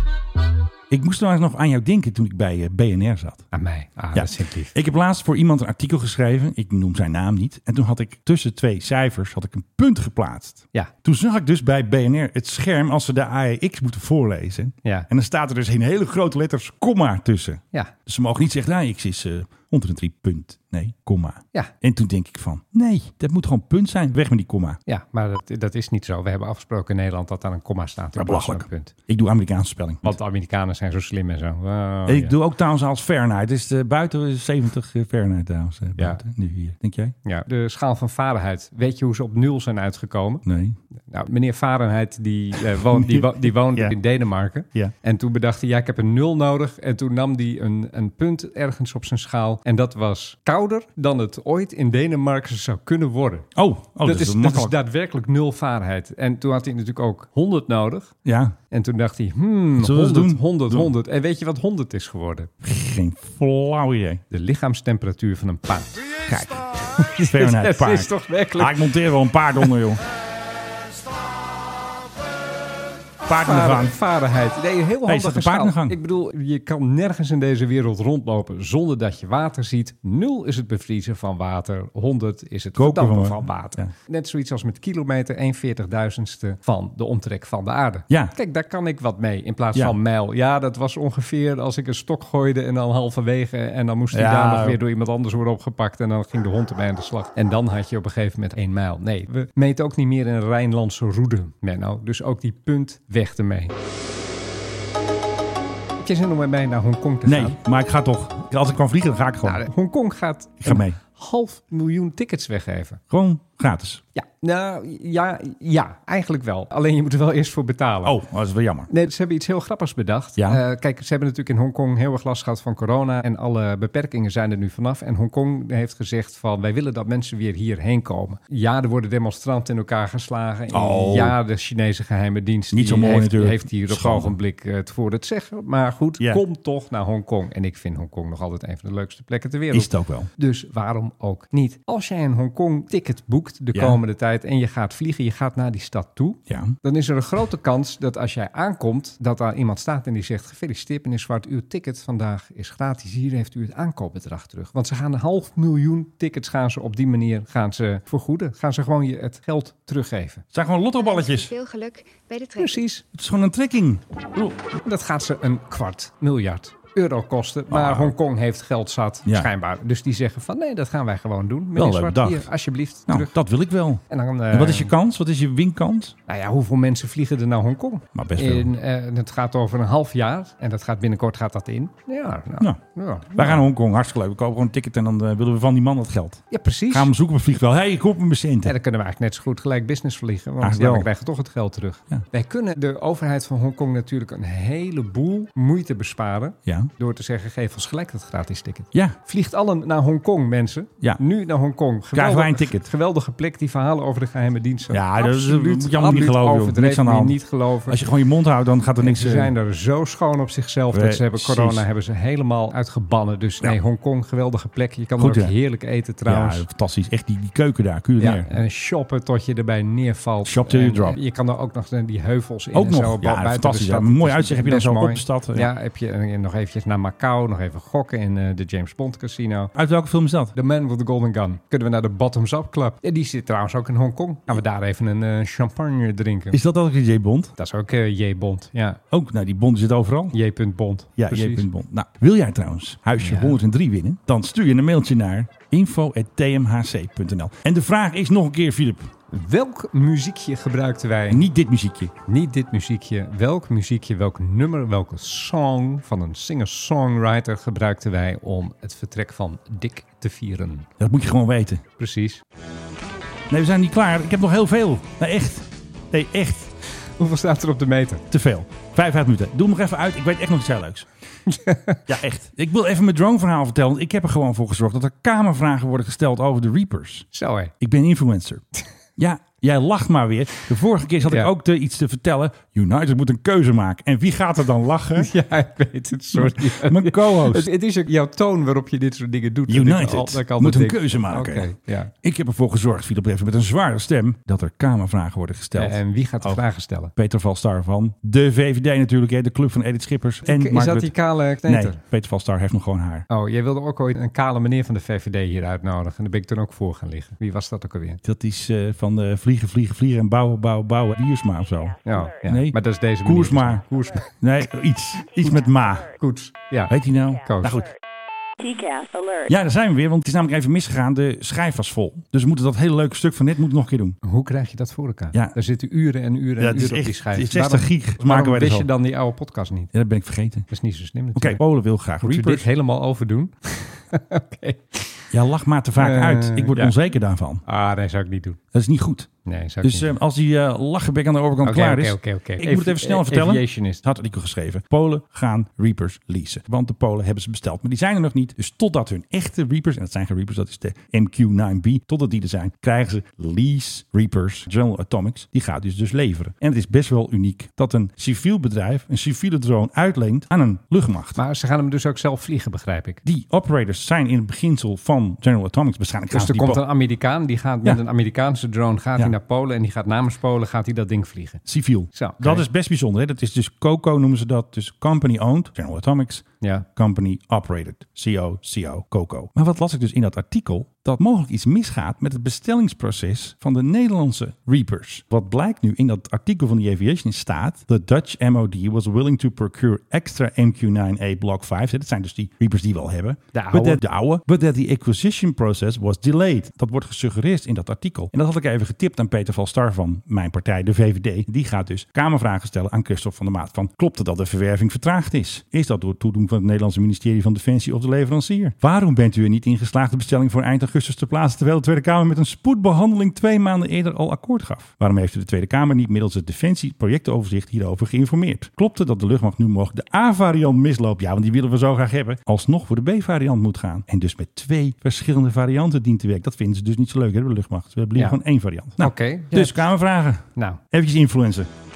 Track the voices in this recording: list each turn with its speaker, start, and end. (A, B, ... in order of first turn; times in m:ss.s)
0:00.9-0:03.5 A
0:03.5-0:04.7 B
0:04.1-0:24.8 A
0:24.9-0:28.9 B
0:28.2-0:30.2 A
0:30.0-0:32.4 B
0:32.1-0:37.1 A
0:37.2-0:40.4 B
0:40.4-0:40.8 A
0:41.1-0:53.5 B
0:42.7-0:43.9 A
0:53.6-0:54.8 A
0:54.0-0:58.1 B
0:58.2-0:58.5 A
0:58.7-1:02.5 B
0:59.8-1:00.9 A
1:02.6-1:04.2 A
1:04.3-1:06.0 B
1:06.3-1:10.0 A
1:06.8-1:09.0 B
1:13.2-1:14.0 A
1:13.4-1:43.7 B
1:15.1-1:16.0 A
1:22.8-1:23.9 A
1:28.1-1:28.3 A
1:34.1-1:34.8 A
1:46.0-1:47.6 B
1:47.2-1:49.6 A
1:49.4-1:53.0 B
1:50.6-1:51.0 A
1:53.1-1:54.0 A
1:54.1-1:58.2 B
1:58.0-1:58.9 A
1:58.9-2:40.4 B
2:10.7-2:11.4 A
2:12.7-2:14.4 A
2:19.7-2:20.3 A
2:23.7-2:24.0 A
2:26.5-2:26.8 A
2:40.5-2:41.5 A
2:41.0-2:42.8 C
2:42.6-2:43.0 B
2:43.1-2:44.6 A
2:44.8-2:53.3 B
2:47.7-2:48.1 A
2:51.7-2:52.5 A
2:53.1-2:56.1 A
2:54.1-2:54.9 B
2:56.3-3:03.6 B
2:58.1-2:58.7 A
3:03.3-3:08.8 A
3:06.5-3:07.1 B
3:08.6-3:28.0 B
3:10.6-3:11.1 A
3:16.6-3:16.9 A
3:22.1-3:22.9 A
3:24.9-3:29.5 A
3:29.0-3:36.6 B
3:30.9-3:31.8 A
3:35.2-3:35.6 A
3:36.3-3:38.5 A
3:38.2-3:49.7 B
3:40.4-3:41.2 A
3:42.7-3:45.7 A
3:49.7-3:50.6 A
3:50.6-3:56.6 B
3:56.5-3:57.5 A
3:57.6-3:59.0 B
3:59.1-4:00.3 A
4:00.3-4:01.7 B
4:01.2-4:09.1 A
4:03.2-4:03.6 B
4:09.3-4:11.4 B
4:11.3-4:12.1 A
4:12.3-4:20.9 B
4:21.0-4:21.8 A
4:22.0-4:22.4 B
4:23.5-4:26.7 A
4:27.2-4:28.2 B
4:28.3-4:31.1 A
4:31.5-4:32.0 B
4:32.1-4:37.3 A
4:37.3-4:37.7 B
4:37.8-4:38.6 A
4:39.2-4:45.3 A
4:45.2-4:52.1 B
4:46.3-4:47.7 A
4:49.7-4:51.7 A
4:52.2-4:56.6 A
4:55.8-4:57.1 B
4:57.2-5:03.3 A
5:00.4-5:02.0 B
5:03.3-5:08.2 B
5:08.2-5:13.8 A
5:12.0-5:14.3 B
5:14.4-5:16.1 A
5:15.4-5:15.9 C
5:16.2-5:17.8 B
5:16.9-5:17.9 A
5:18.6-5:19.5 C
5:19.5-5:24.2 A
5:24.2-5:29.9 B
5:26.6-5:28.9 A
5:29.9-5:30.7 A
5:30.7-5:31.6 B
5:31.3-5:32.7 A
5:32.2-5:35.3 B
5:35.3-5:37.6 A
5:36.0-5:36.9 B
5:37.6-5:38.6 B
5:38.7-5:39.3 A
5:39.4-5:40.1 B
5:39.8-6:01.4 A
5:41.6-5:44.0 B
6:01.4-6:03.2 B
6:03.2-6:06.8 A
6:06.3-6:11.6 B
6:11.6-7:11.7 A
6:12.1-6:12.6 B
6:16.6-6:16.9 B
6:33.6-6:34.0 B
7:09.0-7:09.9 B